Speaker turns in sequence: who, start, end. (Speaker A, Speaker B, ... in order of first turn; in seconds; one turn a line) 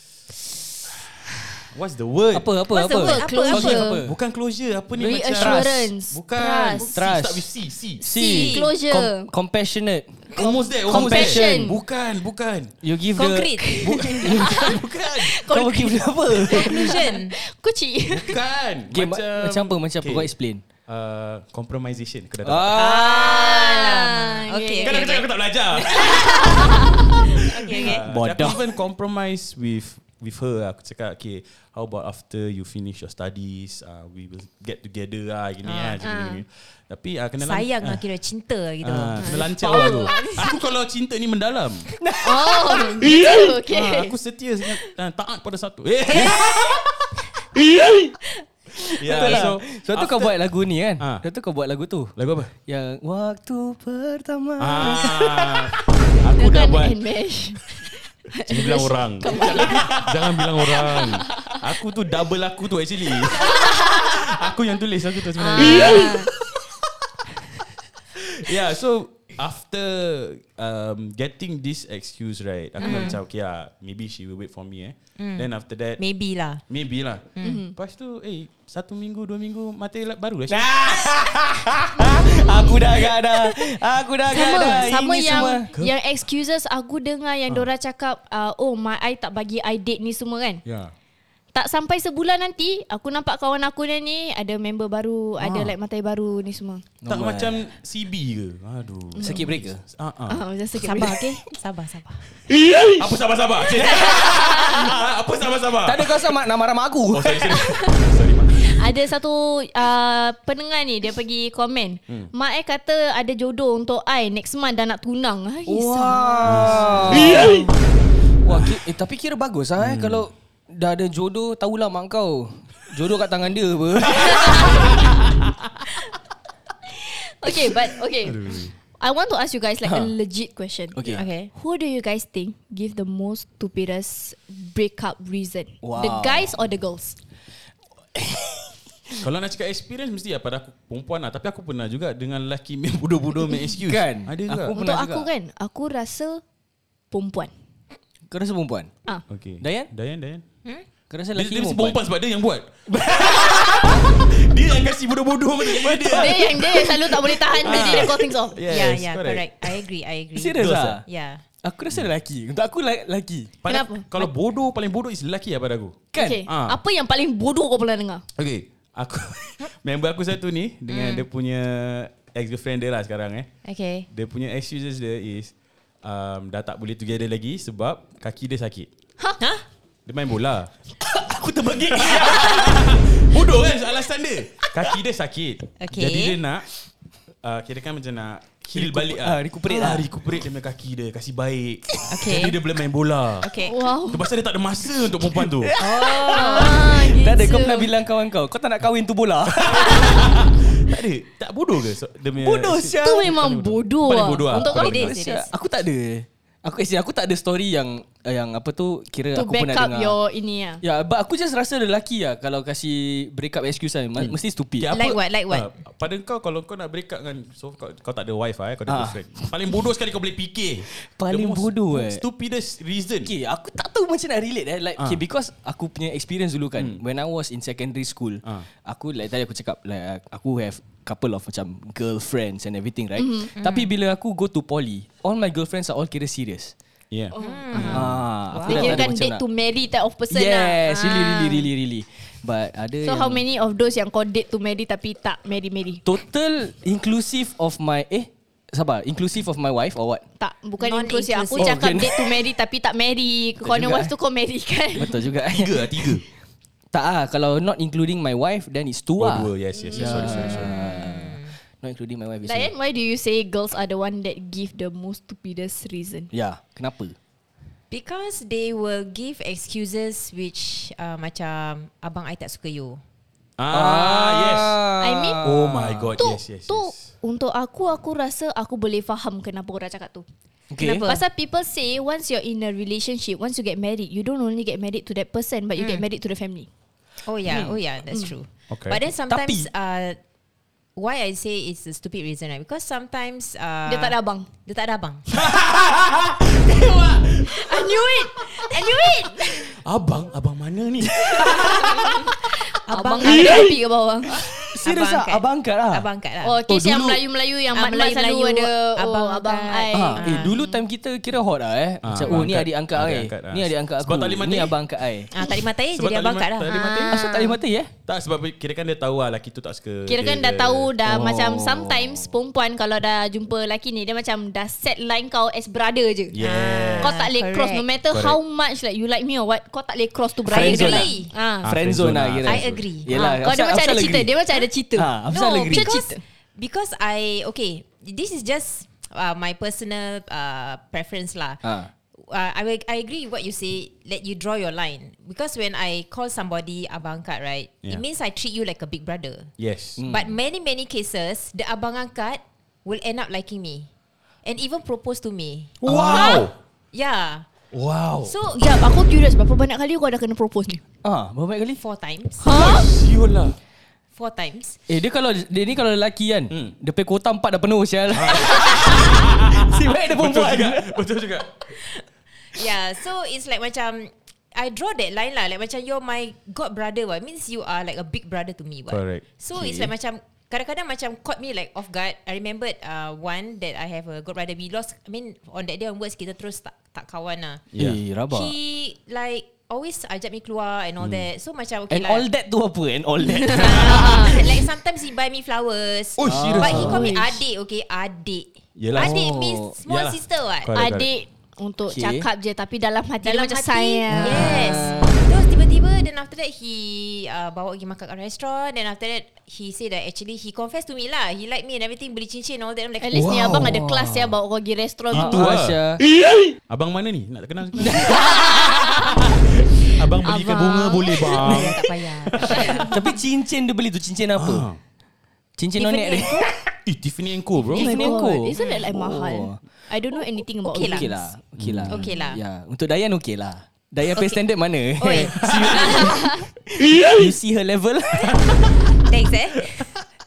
Speaker A: 1.7-2.5
Speaker B: 2.3-4.2
Speaker C: 2.7-3.9
Speaker D: 3.0-4.0
Speaker A: 4.0-8.0
Speaker D: 5.0-6.2
Speaker B: 5.3-5.9
Speaker C: 6.3-6.9
Speaker B: 6.9-7.5
Speaker B: 8.0-10.3
Speaker C: 8.0-8.7
Speaker D: 8.1-9.3
Speaker C: 10.4-10.6
Speaker A: 10.4-12.7
Speaker D: 10.4-11.8
Speaker B: 10.9-11.6
Speaker B: 12.8-14.8
Speaker C: 13.2-13.9
Speaker D: 13.6-18.4
Speaker A: 13.8-15.3
Speaker B: 15.5-16.9
Speaker C: 16.5-17.3
Speaker A: 18.1-20.3
Speaker B: 18.9-20.6
Speaker A: 20.9-22.9
Speaker B: 22.4-23.4
Speaker C: 22.7-25.2
Speaker D: 23.0-25.1
Speaker A: 24.8-38.0
Speaker D: 25.9-27.1
Speaker C: 27.5-28.1
Speaker D: 27.7-28.0
Speaker B: 28.1-28.6
Speaker C: 35.6-36.1
Speaker D: 36.0-36.4
Speaker C: 37.4-40.1
Speaker A: 38.8-41.9
Speaker D: 39.2-40.6
Speaker B: 42.0-43.1
Speaker D: 42.2-44.1
Speaker A: 43.6-47.2
Speaker C: 46.1-46.5
Speaker B: 47.8-48.1
Speaker A: 48.8-50.4
Speaker B: 49.0-52.1
Speaker A: 51.0-51.2
Speaker A: 52.2-52.5
Speaker B: 52.6-55.7
Speaker A: 54.6-57.0
Speaker D: 56.4-61.6
Speaker A: 58.4-66.8
Speaker D: 63.4-64.2
Speaker D: 65.4-66.3
Speaker A: 68.2-76.0
Speaker C: 72.8-73.2
Speaker D: 72.8-73.1
Speaker C: 75.2-76.6
Speaker A: 76.7-81.1
Speaker C: 77.3-77.6
Speaker D: 77.4-77.7
Speaker B: 80.5-85.7
Speaker D: 83.3-83.6
Speaker D: 84.2-90.6
Speaker C: 84.4-85.6
Speaker A: 90.6-90.9
Speaker D: 91.5-96.8
Speaker A: 95.4-95.7
Speaker B: 97.0-97.6
Speaker A: 97.1-100.4
Speaker D: 99.2-99.4
Speaker B: 99.2-99.8
Speaker D: 100.3-101.3
Speaker C: 100.8-102.2
Speaker B: 102.7-102.9
Speaker A: 102.8-106.2
Speaker D: 104.0-104.8
Speaker B: 105.8-107.6
Speaker A: 107.1-108.8
Speaker D: 108.6-117.6
Speaker B: 115.7-117.7
Speaker A: 116.4-117.8
Speaker B: 118.4-125.0
Speaker A: 118.5-118.7
Speaker A: 119.8-120.3
Speaker A: 124.2-125.8
Speaker D: 124.2-124.9
Speaker D: 126.9-128.4
Speaker A: 128.2-128.7
Speaker D: 129.0-131.0
Speaker B: 129.8-130.1
Speaker B: 130.9-131.2
Speaker C: 131.1-131.5
Speaker D: 131.5-137.2
Speaker B: 135.8-136.5
Speaker B: 138.2-139.2
Speaker A: 139.2-144.7
Speaker B: 143.8-145.3
Speaker D: 144.7-146.4
Speaker D: 147.1-147.5
Speaker B: 148.3-148.9
Speaker A: 149.3-150.4
Speaker B: 149.6-149.9
Speaker B: 151.1-152.0
Speaker A: 151.3-159.8
Speaker B: 152.9-153.9
Speaker B: 155.7-156.4
Speaker D: 156.0-158.6
Speaker C: 158.7-161.4
Speaker B: 160.3-161.0
Speaker A: 160.6-161.0
Speaker B: 161.6-163.5
Speaker A: 163.6-166.8
Speaker D: 163.7-164.1
Speaker B: 166.1-166.4
Speaker D: 166.1-168.2
Speaker A: 168.3-173.5
Speaker C: 170.9-171.2
Speaker C: 173.6-174.1
Speaker A: 174.1-178.9
Speaker C: 179.4-179.6
Speaker A: 180.1-180.7
Speaker B: 181.0-183.0
Speaker A: 181.8-186.7
Speaker C: 185.8-186.4
Speaker A: 187.4-193.5
Speaker B: 188.7-190.1
Speaker C: 192.1-192.6
Speaker C: 193.4-193.8
Speaker D: 193.6-194.2
Speaker A: 194.0-195.7
Speaker B: 195.2-200.5
Speaker C: 195.8-196.8
Speaker D: 196.3-197.9
Speaker A: 199.6-205.1
Speaker B: 202.4-203.3
Speaker D: 203.0-205.1
Speaker C: 204.6-205.5
Speaker B: 204.6-210.2
Speaker D: 209.3-210.8
Speaker B: 210.8-214.9
Speaker A: 214.2-223.3
Speaker C: 214.9-215.7
Speaker B: 218.9-219.5
Speaker B: 220.9-222.2
Speaker B: 223.2-236.7
Speaker A: 225.0-225.2
Speaker A: 226.8-227.0
Speaker D: 233.2-233.5
Speaker C: 233.6-233.9
Speaker A: 237.1-238.2
Speaker D: 237.3-238.0
Speaker C: 237.3-239.1
Speaker B: 237.7-239.4
Speaker D: 238.6-241.4
Speaker B: 240.3-243.4
Speaker C: 240.9-241.6
Speaker D: 243.0-246.0
Speaker B: 246.0-250.2
Speaker D: 250.4-255.1
Speaker C: 250.8-252.1
Speaker B: 251.6-252.3
Speaker B: 253.6-254.1
Speaker B: 254.9-256.2
Speaker A: 255.5-256.2
Speaker B: 256.9-262.7
Speaker A: 259.2-260.7
Speaker D: 259.8-260.7
Speaker C: 260.2-261.6
Speaker D: 262.4-266.3
Speaker B: 266.3-267.1
Speaker C: 267.9-273.0
Speaker A: 273.6-274.8
Speaker B: 273.7-276.1
Speaker D: 275.0-275.4
Speaker A: 275.4-277.0
Speaker D: 276.2-280.2
Speaker B: 280.7-281.1
Speaker C: 280.8-281.2
Speaker D: 280.8-286.7
Speaker C: 285.8-286.1
Speaker C: 287.2-290.2
Speaker B: 287.4-287.8
Speaker A: 288.7-289.0
Speaker B: 289.3-289.7
Speaker C: 290.9-295.3
Speaker D: 293.9-294.5
Speaker A: 295.3-297.9
Speaker D: 297.5-299.7
Speaker A: 299.5-302.4
Speaker D: 301.4-302.3
Speaker C: 302.7-303.7
Speaker D: 302.9-304.4
Speaker B: 304.7-306.1
Speaker C: 304.8-306.6
Speaker D: 306.4-310.5
Speaker B: 306.7-307.2
Speaker C: 307.7-310.8
Speaker B: 309.9-315.3
Speaker A: 312.0-314.8
Speaker C: 315.3-317.1
Speaker A: 315.9-317.1
Speaker D: 316.6-317.6
Speaker B: 317.1-317.9
Speaker A: 318.1-320.9
Speaker D: 320.1-326.4
Speaker B: 321.0-322.1
Speaker A: 326.3-327.2
Speaker C: 326.4-327.9
Speaker D: 327.0-331.7
Speaker A: 328.1-328.4
Speaker C: 330.4-331.3
Speaker B: 330.5-331.1
Speaker A: 331.6-332.9
Speaker B: 331.6-334.4
Speaker C: 332.4-333.2
Speaker D: 333.1-336.2
Speaker B: 334.9-335.9
Speaker C: 335.3-353.9
Speaker B: 341.6-341.9
Speaker A: 349.6-350.0
Speaker B: 350.0-350.3
Speaker C: 354.4-357.5
Speaker B: 355.8-356.4
Speaker A: 355.8-356.5
Speaker A: 357.7-358.3
Speaker C: 358.2-358.7
Speaker D: 358.5-360.8
Speaker B: 361.0-361.8
Speaker C: 361.8-362.4
Speaker D: 362.4-362.9
Speaker A: 362.5-363.6
Speaker C: 364.1-364.8
Speaker B: 364.9-371.0
Speaker A: 368.1-371.8
Speaker C: 372.5-387.6
Speaker A: 378.9-379.2
Speaker A: 387.7-388.0
Speaker B: 387.8-388.5
Speaker C: 388.3-392.2
Speaker A: 391.0-391.3
Speaker B: 391.9-394.6
Speaker D: 393.4-394.3
Speaker C: 393.5-400.7
Speaker A: 396.2-397.1
Speaker B: 396.2-397.0
Speaker D: 396.7-397.4
Speaker A: 398.8-399.2
Speaker B: 398.9-399.7
Speaker A: 399.8-401.1
Speaker D: 400.7-404.9
Speaker B: 401.9-402.2
Speaker C: 403.2-413.3
Speaker B: 404.1-405.2
Speaker D: 413.0-415.5
Speaker B: 413.1-414.3
Speaker A: 415.1-415.8
Speaker B: 415.1-416.1
Speaker A: 416.7-422.9
Speaker B: 417.8-418.3
Speaker D: 418.4-419.2
Speaker D: 420.1-421.4
Speaker C: 421.4-423.0
Speaker B: 421.4-424.6
Speaker D: 422.5-423.0
Speaker A: 424.4-424.8
Speaker B: 425.6-426.7
Speaker C: 425.8-426.5
Speaker A: 426.8-427.9
Speaker B: 427.7-429.6
Speaker D: 427.7-431.3
Speaker C: 428.5-428.8
Speaker C: 430.6-431.2
Speaker B: 430.8-438.8
Speaker A: 431.6-432.1
Speaker C: 431.9-432.4
Speaker C: 434.1-434.4
Speaker C: 435.0-436.1
Speaker A: 435.5-435.9
Speaker D: 436.1-436.4
Speaker A: 438.5-438.9
Speaker C: 439.0-439.9